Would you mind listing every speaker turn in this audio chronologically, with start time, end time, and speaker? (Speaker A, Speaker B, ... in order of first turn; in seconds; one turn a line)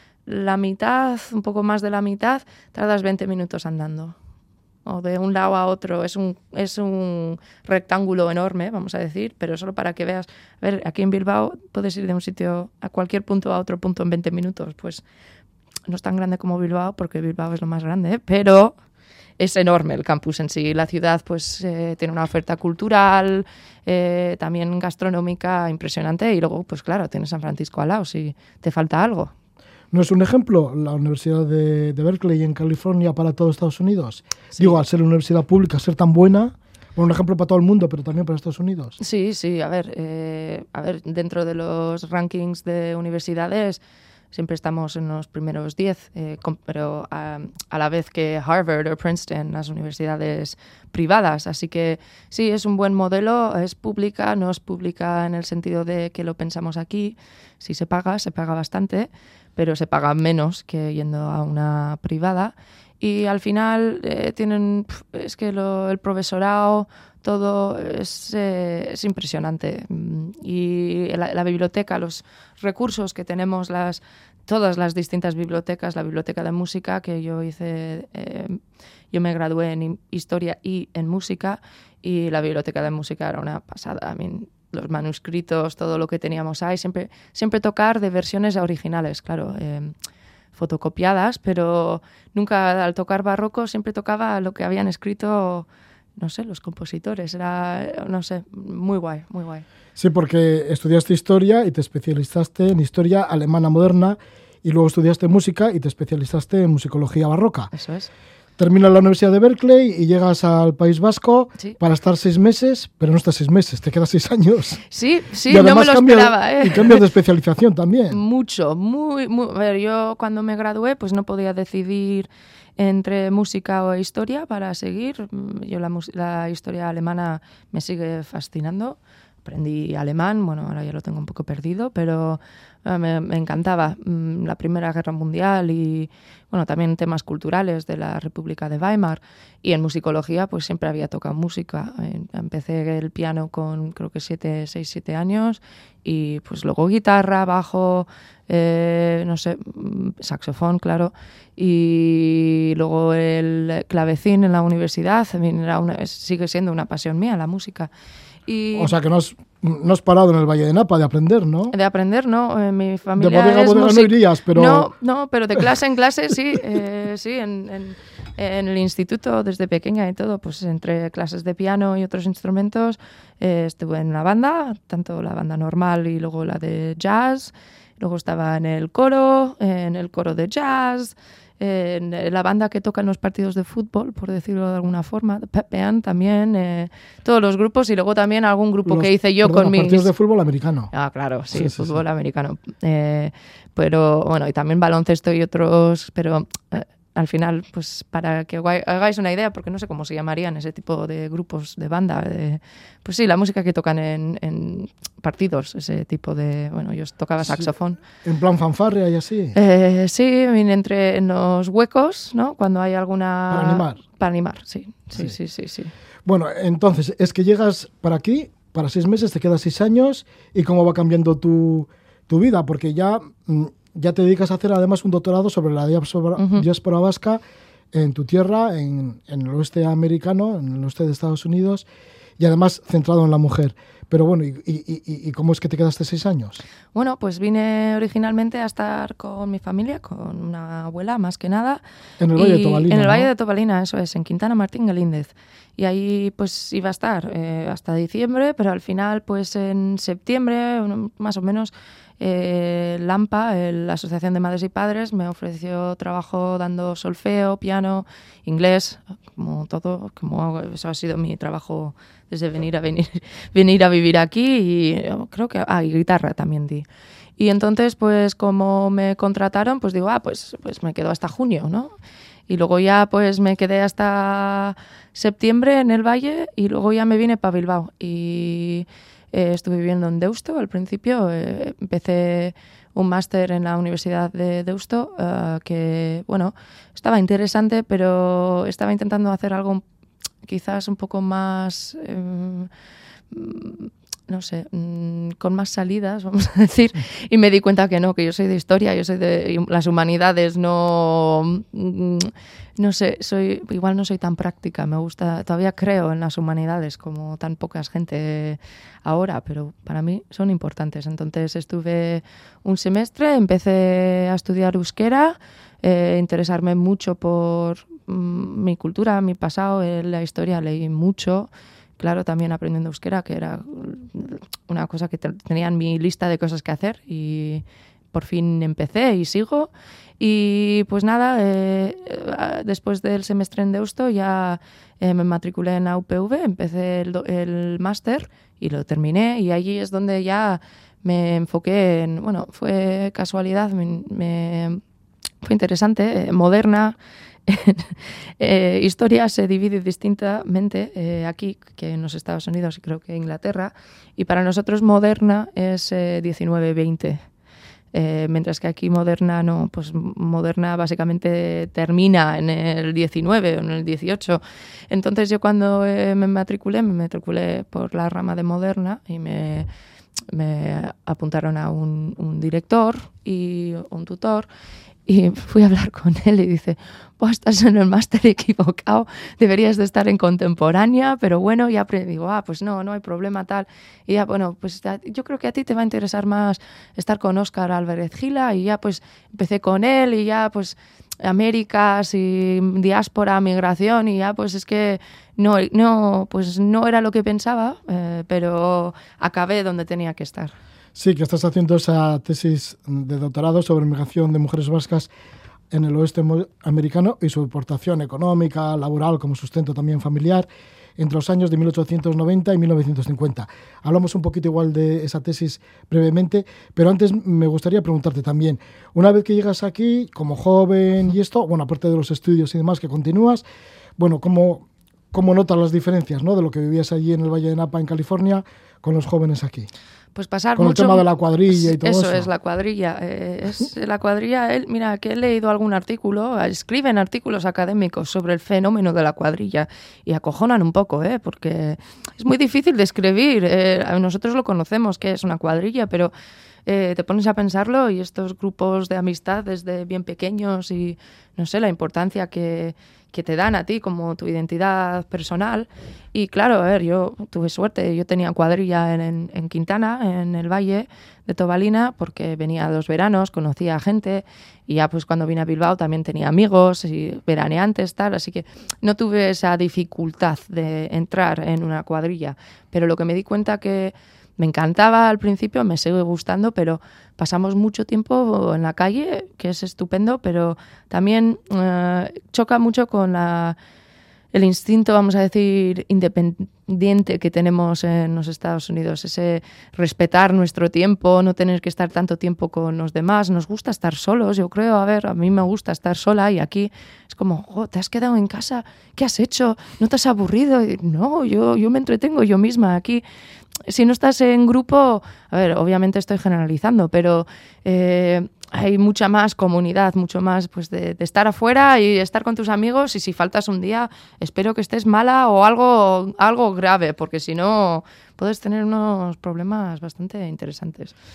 Speaker A: 0.3-4.2
Speaker A: 4.8-15.0
Speaker A: 15.9-18.8
Speaker A: 19.4-29.3
Speaker B: 29.9-39.0
Speaker A: 39.0-43.8
Speaker A: 44.3-78.6
Speaker A: 79.1-89.9
Speaker A: 90.5-99.7
Speaker B: 100.0-107.7
Speaker A: 107.7-108.1
Speaker B: 108.6-114.8
Speaker A: 114.9-117.0
Speaker B: 115.5-118.2
Speaker A: 118.1-157.9
Speaker A: 158.5-158.9
Speaker B: 158.7-161.7
Speaker A: 161.7-190.1
Speaker B: 163.2-164.9
Speaker B: 188.8-190.9
Speaker A: 190.9-208.0
Speaker B: 191.5-192.0
Speaker B: 207.4-207.7
Speaker B: 208.2-209.6
Speaker A: 209.6-215.9
Speaker B: 213.5-214.0
Speaker B: 216.2-227.4
Speaker A: 226.4-226.7
Speaker B: 227.9-231.8
Speaker B: 232.4-236.6
Speaker A: 236.9-241.8
Speaker B: 242.2-243.3
Speaker A: 242.4-266.9
Speaker A: 267.4-271.9
Speaker A: 272.5-289.8
Speaker A: 290.4-292.7
Speaker A: 293.3-344.8
Speaker A: 345.4-346.9
Speaker A: 347.5-357.3
Speaker A: 357.9-369.7
Speaker A: 370.3-374.5
Speaker A: 375.1-400.5
Speaker B: 400.9-405.1
Speaker B: 405.7-423.4
Speaker B: 424.0-429.7
Speaker A: 430.1-446.1
Speaker B: 430.6-432.3
Speaker A: 446.7-483.6
Speaker A: 484.3-503.0
Speaker A: 503.6-520.9